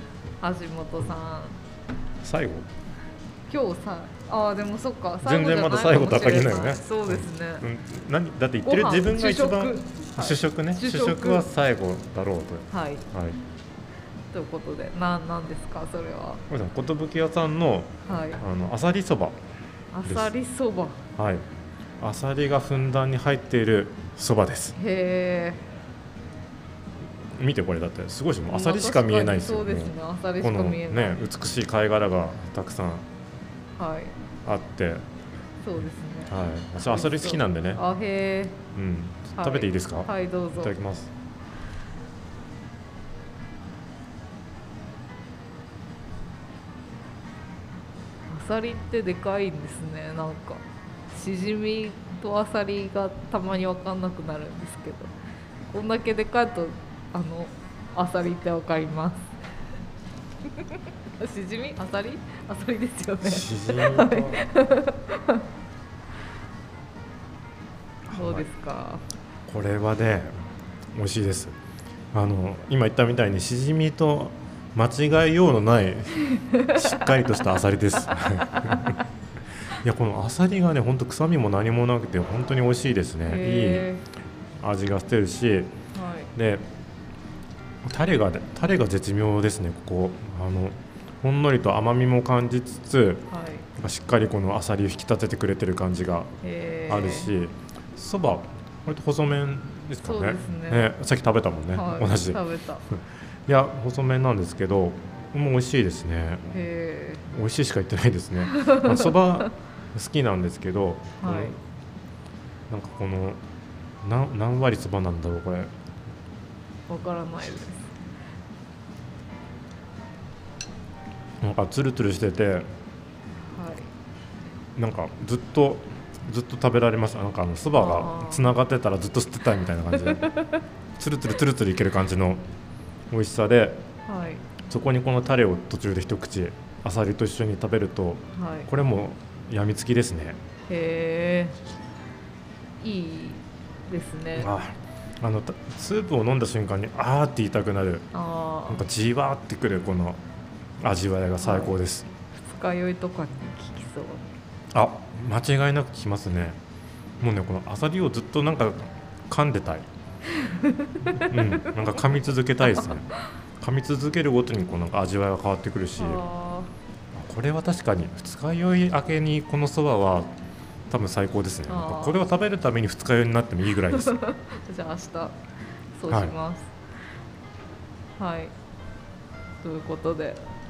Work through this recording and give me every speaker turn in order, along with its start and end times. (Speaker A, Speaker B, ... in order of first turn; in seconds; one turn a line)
Speaker A: 0.4-1.6
Speaker B: 2.2-2.7
Speaker A: 3.5-7.6
Speaker B: 5.2-13.4
Speaker A: 8.6-11.5
Speaker A: 12.7-13.0
Speaker A: 14.3-16.4
Speaker B: 16.5-19.4
Speaker A: 18.1-18.4
Speaker A: 19.9-21.0
Speaker B: 20.0-20.3
Speaker B: 21.2-21.4
Speaker B: 22.0-24.8
Speaker A: 24.8-25.6
Speaker B: 27.3-33.1
Speaker A: 28.5-31.2
Speaker A: 33.8-34.1
Speaker B: 34.4-35.1
Speaker A: 35.6-38.6
Speaker B: 36.3-37.8
Speaker B: 38.8-41.1
Speaker A: 39.4-40.7
Speaker A: 48.3-55.1
Speaker A: 55.7-59.3
Speaker A: 60.6-65.4
Speaker B: 63.2-64.5
Speaker B: 68.1-68.5
Speaker A: 68.1-69.0
Speaker B: 69.5-70.3
Speaker B: 71.0-71.6
Speaker B: 72.1-79.0
Speaker A: 76.3-77.1
Speaker B: 79.8-83.9
Speaker A: 83.2-84.0
Speaker B: 84.6-85.7
Speaker A: 86.0-86.3
Speaker B: 86.3-86.7
Speaker B: 87.8-96.3
Speaker A: 93.3-93.7
Speaker A: 96.4-97.3
Speaker B: 96.9-102.4
Speaker A: 100.0-100.9
Speaker A: 101.7-102.8
Speaker B: 103.5-106.6
Speaker A: 106.5-107.3
Speaker B: 107.3-111.6
Speaker A: 108.5-109.1
Speaker A: 111.2-111.6
Speaker B: 112.7-113.4
Speaker B: 114.0-115.7
Speaker A: 116.9-117.9
Speaker B: 121.4-122.7
Speaker A: 123.5-123.9
Speaker B: 124.8-130.2
Speaker A: 127.7-128.5
Speaker A: 130.0-130.6
Speaker B: 131.0-132.4
Speaker B: 133.1-133.8
Speaker A: 134.1-134.4
Speaker B: 134.7-140.4
Speaker A: 138.3-138.7
Speaker A: 140.7-141.6
Speaker A: 142.8-144.5
Speaker B: 144.3-148.1
Speaker A: 148.1-148.8
Speaker B: 148.7-150.2
Speaker B: 150.8-152.1
Speaker A: 151.4-151.7
Speaker A: 152.3-154.3
Speaker B: 154.7-156.6
Speaker B: 157.2-159.8
Speaker A: 160.3-163.0
Speaker B: 161.2-166.2
Speaker A: 166.0-166.7
Speaker B: 167.2-170.3
Speaker B: 170.9-174.2
Speaker A: 171.7-172.2
Speaker A: 173.8-175.3
Speaker A: 176.0-176.7
Speaker B: 176.1-176.3
Speaker A: 178.2-178.5
Speaker A: 179.6-180.4